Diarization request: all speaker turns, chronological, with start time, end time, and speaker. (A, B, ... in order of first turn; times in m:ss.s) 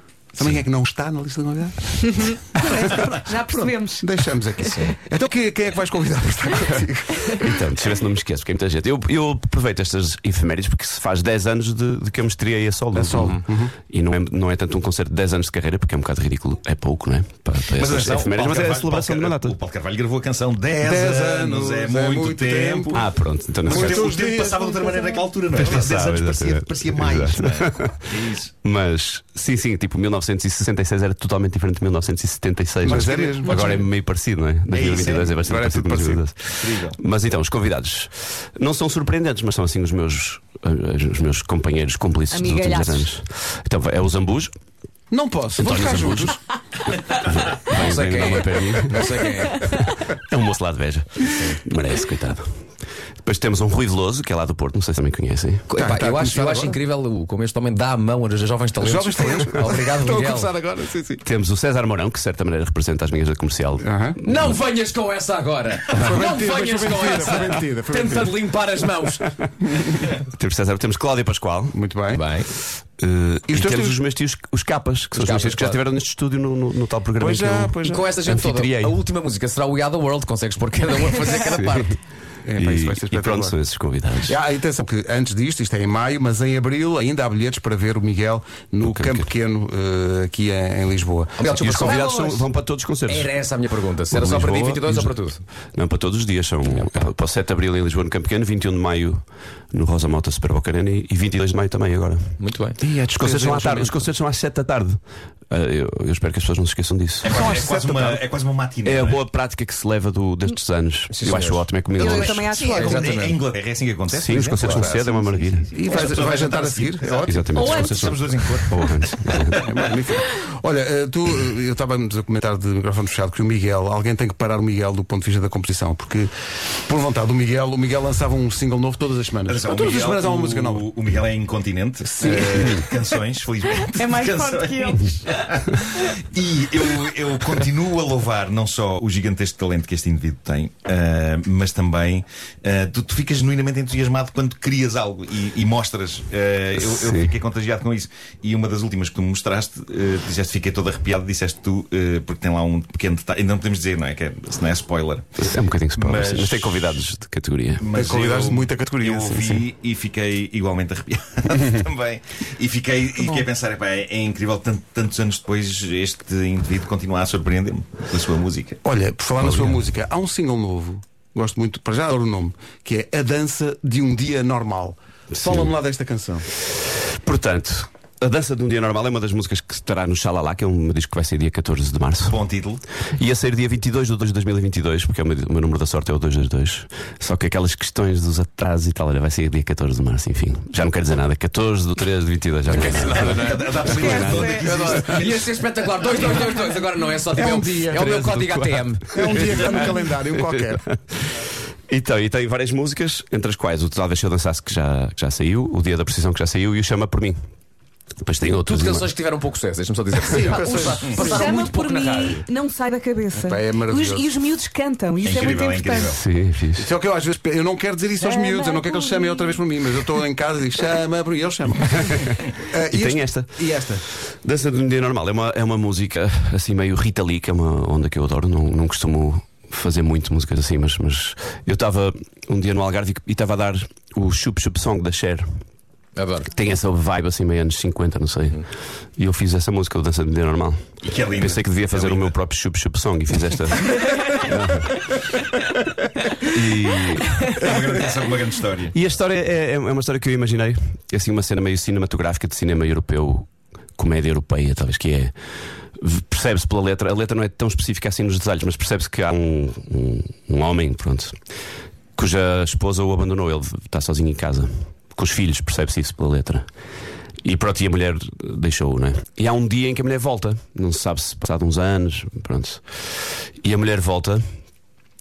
0:00.4-0:07.6 A
0:02.1-0:04.8 B
0:07.4-0:19.6 C
0:12.9-0:13.7 A
0:17.7-0:23.1 D
0:20.8-0:23.1 A
0:22.9-0:24.1 C
0:23.6-0:25.2 A
0:23.6-0:28.5 D
0:25.5-0:44.5 C
0:32.8-0:33.8 A
0:34.7-0:35.3 D
0:35.3-0:36.3 A
0:36.6-0:37.0 D
0:42.3-0:43.1 B
0:45.1-0:46.4 A
0:45.6-0:46.4 C
0:47.0-0:52.6 C
0:47.7-0:49.7 E
0:53.2-0:55.7 C
0:55.7-1:00.6 E
0:55.7-0:56.8 A
0:58.8-1:01.2 A
1:01.2-1:04.6 C
1:03.8-1:04.2 A
1:04.2-1:09.3 E
1:05.9-1:08.4 A
1:10.0-1:11.8 C
1:11.7-1:12.2 A
1:12.1-1:12.5 E
1:13.0-1:19.0 C
1:13.5-1:14.0 A
1:15.2-1:15.8 E
1:17.2-1:18.1 A
1:17.8-1:21.9 E
1:21.4-1:21.9 C
1:22.4-1:23.6 A
1:22.6-1:24.4 C
1:24.2-1:32.0 A
1:28.8-1:29.3 C
1:31.4-1:32.5 E
1:31.5-1:33.3 C
1:33.1-1:35.4 E
1:34.1-1:35.1 C
1:35.7-1:42.4 C
1:42.4-1:42.8 E
1:42.8-1:44.1 A
1:43.2-1:47.4 C
1:47.2-1:49.2 D
1:47.2-1:48.2 A
1:48.8-1:52.4 C
1:51.1-1:53.4 E
1:52.0-1:53.2 B
1:52.5-1:59.9 D
1:54.1-1:55.7 C
1:54.6-1:55.0 E
1:55.7-1:57.4 A
1:57.2-1:59.7 C
1:57.5-1:58.5 B
1:59.5-2:06.3 A
2:06.8-2:10.9 A
2:09.5-2:36.9 D
2:12.0-2:12.9 A
2:13.8-2:15.4 B
2:26.8-2:27.4 C
2:35.4-2:37.9 C
2:37.8-2:48.8 D
2:37.9-2:39.7 A
2:48.8-2:56.5 A
2:49.4-2:49.8 C
2:55.3-2:55.7 C
2:57.1-3:02.4 C
3:02.3-3:02.8 D
3:03.1-3:15.2 C
3:12.7-3:19.7 E
3:12.9-3:15.7 D
3:13.8-3:14.9 B
3:17.3-3:18.2 A
3:18.0-3:27.5 C
3:19.1-3:20.8 A
3:28.2-3:29.1 C
3:28.5-3:32.4 E
3:30.3-3:31.3 A
3:31.1-3:36.2 B
3:33.4-3:34.3 A
3:35.2-3:36.2 D
3:36.1-3:36.9 C
3:36.8-3:44.0 A
3:38.2-3:39.6 B
3:41.9-3:55.6 C
3:56.2-3:56.5 E
3:56.5-3:58.7 C
3:59.2-4:05.1 C
4:01.0-4:02.3 D
4:06.4-4:07.9 C
4:07.4-4:09.0 D
4:08.9-4:15.4 C
4:16.0-4:21.4 C
4:22.2-4:26.7 C
4:27.4-4:34.5 C